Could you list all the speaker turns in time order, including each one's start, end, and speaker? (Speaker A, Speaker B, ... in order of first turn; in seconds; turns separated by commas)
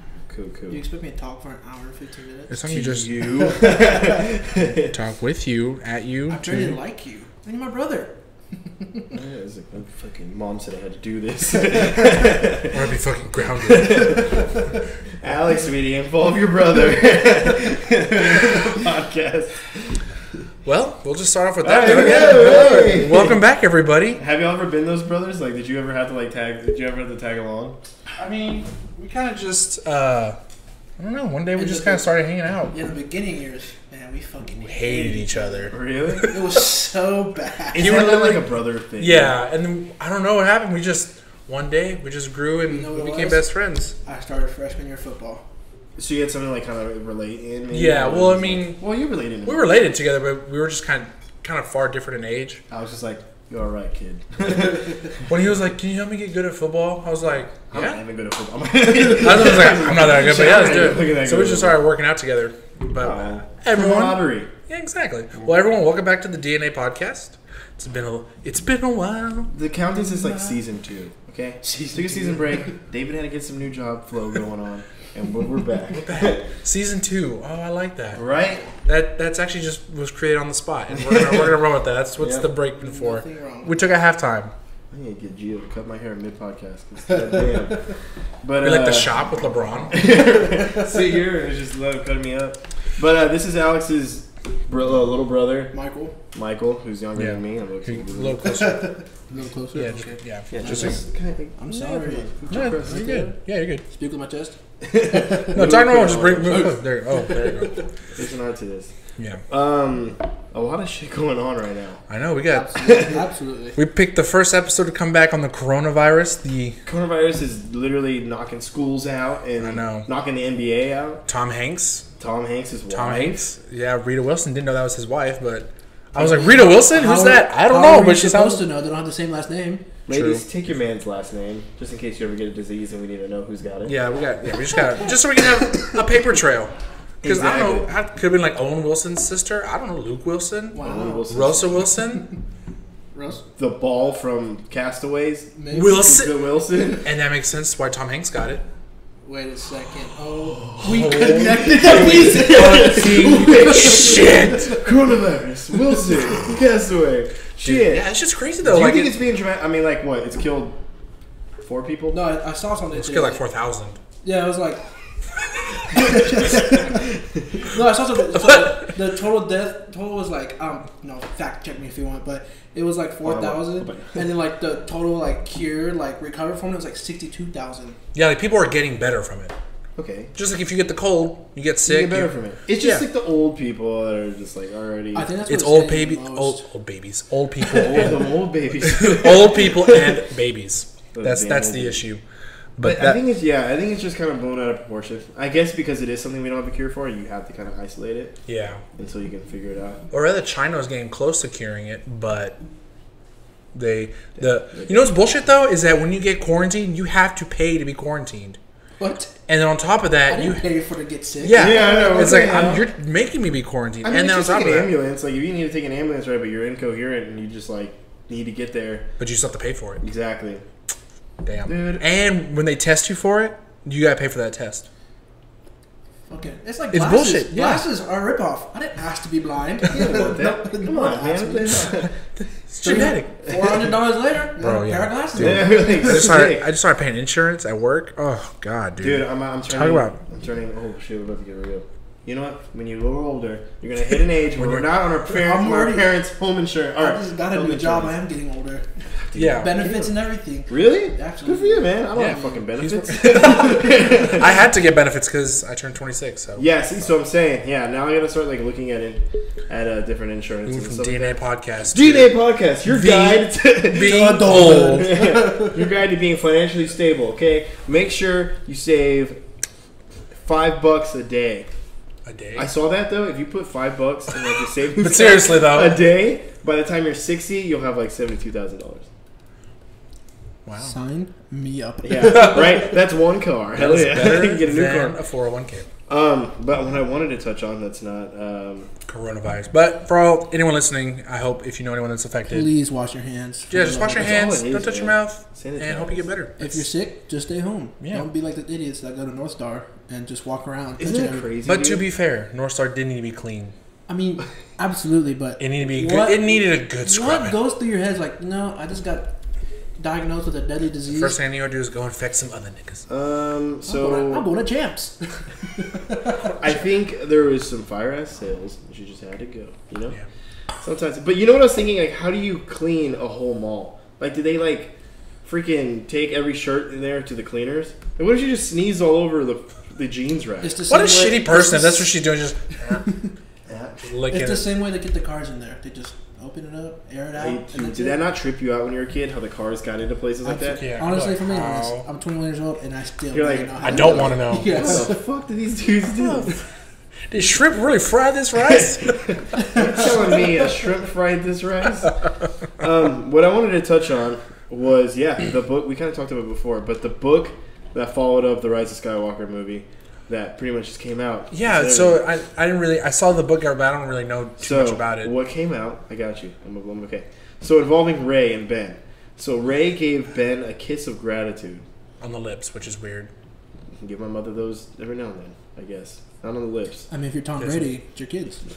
Speaker A: 0.3-0.8, Speaker B: 0.7-2.5, Speaker C: 2.5-3.2, Speaker A: 2.7-4.9, Speaker C: 4.8-6.8, Speaker B: 6.3-8.2, Speaker A: 9.1-12.8, Speaker C: 12.6-14.4, Speaker A: 13.6-14.6, Speaker A: 15.2-20.0, Speaker C: 20.6-24.2, Speaker A: 21.6-23.4, Speaker A: 24.2-27.8, Speaker C: 28.2-30.4, Speaker C: 31.0-32.7, Speaker B: 31.5-32.1, Speaker B: 32.7-38.0, Speaker C: 34.6-36.5, Speaker A: 35.7-36.3, Speaker A: 37.7-39.4, Speaker C: 37.7-43.9, Speaker B: 42.7-43.5, Speaker B: 44.0-45.4, Speaker A: 46.0-49.8, Speaker C: 47.7-48.8, Speaker C: 49.4-52.6, Speaker A: 52.7-55.2, Speaker C: 55.2-58.0, Speaker A: 57.7-61.8, Speaker C: 59.0-69.5, Speaker A: 63.0-64.5, Speaker A: 69.5-76.4, Speaker B: 70.0-70.6, Speaker B: 71.6-72.7, Speaker C: 75.9-78.2, Speaker A: 78.1-78.7, Speaker C: 78.8-84.5, Speaker A: 80.9-81.6, Speaker A: 82.2-82.5, Speaker B: 82.8-83.8, Speaker A: 84.9-87.8, Speaker A: 88.4-89.2, Speaker C: 88.6-90.0, Speaker A: 89.9-95.7, Speaker B: 95.7-96.1, Speaker A: 96.3-98.6, Speaker C: 97.1-99.0, Speaker B: 98.5-101.0, Speaker C: 99.7-101.0, Speaker A: 100.5-103.3, Speaker B: 101.6-104.5, Speaker C: 102.5-103.8, Speaker A: 104.8-106.8, Speaker B: 105.1-105.7, Speaker C: 105.4-107.9, Speaker B: 106.5-107.6, Speaker A: 108.1-108.9, Speaker C: 109.2-109.4, Speaker A: 109.5-112.0, Speaker C: 112.1-113.0, Speaker B: 112.5-113.8, Speaker A: 112.8-113.2, Speaker C: 113.8-116.8, Speaker A: 116.8-121.2, Speaker C: 119.6-120.1, Speaker C: 121.2-122.1, Speaker A: 122.2-123.5, Speaker C: 122.9-128.6, Speaker B: 126.2-129.8, Speaker A: 130.1-133.9, Speaker C: 130.1-130.4, Speaker C: 133.8-136.7, Speaker A: 137.2-137.9, Speaker C: 137.2-142.3, Speaker B: 140.7-141.3, Speaker A: 140.8-141.9, Speaker B: 143.1-143.4, Speaker A: 143.6-147.1, Speaker B: 145.6-146.1, Speaker C: 145.7-148.6, Speaker B: 149.2-154.8, Speaker A: 150.4-158.1, Speaker C: 150.8-154.8, Speaker C: 157.6-159.2, Speaker A: 158.6-160.8, Speaker A: 161.6-162.2, Speaker B: 162.1-163.4, Speaker C: 162.9-164.0, Speaker B: 164.2-164.8, Speaker B: 165.9-167.0, Speaker B: 167.6-178.0, Speaker C: 168.3-168.9, Speaker A: 173.2-174.2, Speaker C: 178.1-179.5, Speaker A: 179.9-180.3, Speaker C: 180.3-183.0, Speaker A: 181.8-185.3, Speaker B: 185.1-186.6, Speaker C: 185.5-188.3, Speaker A: 187.7-190.2, Speaker C: 188.8-192.2, Speaker A: 191.1-192.0, Speaker C: 192.8-193.2, Speaker A: 192.8-198.3, Speaker C: 198.5-198.8, Speaker A: 199.0-200.0, Speaker C: 200.1-202.6, Speaker C: 203.7-208.6, Speaker A: 204.4-205.1, Speaker B: 209.0-209.3, Speaker C: 209.5-210.6, Speaker B: 210.3-212.1, Speaker C: 211.4-214.9, Speaker A: 211.6-212.9, Speaker A: 214.0-219.1, Speaker C: 219.2-220.0, Speaker A: 220.0-220.6, Speaker C: 221.4-224.8, Speaker A: 221.7-222.0, Speaker B: 226.3-231.9, Speaker C: 226.9-227.8, Speaker A: 229.9-232.1, Speaker C: 232.7-233.8, Speaker B: 232.8-236.1, Speaker C: 234.6-240.2, Speaker A: 235.4-236.7, Speaker A: 239.0-248.1, Speaker C: 244.6-244.9, Speaker B: 245.3-246.1, Speaker B: 247.0-248.8, Speaker A: 249.3-250.1, Speaker C: 249.3-249.8, Speaker B: 249.6-252.0, Speaker A: 250.7-254.6, Speaker C: 252.1-256.6, Speaker A: 256.6-261.2, Speaker C: 260.6-265.1, Speaker A: 261.9-269.4, Speaker B: 263.9-265.7, Speaker A: 270.4-271.7, Speaker C: 272.2-272.7, Speaker A: 272.6-279.1, Speaker C: 274.9-276.0, Speaker C: 280.6-280.9, Speaker B: 280.8-282.9, Speaker A: 282.0-285.2, Speaker C: 283.7-285.9, Speaker A: 286.1-288.9, Speaker C: 289.1-292.7, Speaker B: 292.5-294.4, Speaker C: 293.7-296.9, Speaker A: 294.1-296.2, Speaker B: 296.6-301.5, Speaker C: 298.0-298.3, Speaker A: 301.0-302.0, Speaker C: 301.6-303.7, Speaker B: 304.1-306.5, Speaker C: 305.6-307.6, Speaker B: 307.0-309.3, Speaker B: 310.0-311.4, Speaker C: 311.1-313.1, Speaker A: 313.1-314.5, Speaker B: 313.9-316.4, Speaker A: 316.5-320.1, Speaker A: 320.8-330.7, Speaker B: 330.6-332.1, Speaker C: 330.9-332.6, Speaker A: 333.6-334.0, Speaker C: 334.0-334.7, Speaker B: 334.3-338.2, Speaker A: 337.3-340.9, Speaker B: 340.4-345.2, Speaker C: 340.7-342.0, Speaker A: 343.3-346.6, Speaker C: 343.8-345.1, Speaker C: 346.1-346.6, Speaker C: 347.3-350.2, Speaker A: 348.7-352.2, Speaker B: 349.6-349.8, Speaker A: 352.8-362.2, Speaker C: 361.5-365.3, Speaker A: 364.6-371.8, Speaker C: 372.2-373.3, Speaker A: 374.0-377.1, Speaker B: 377.1-378.6, Speaker C: 377.6-377.9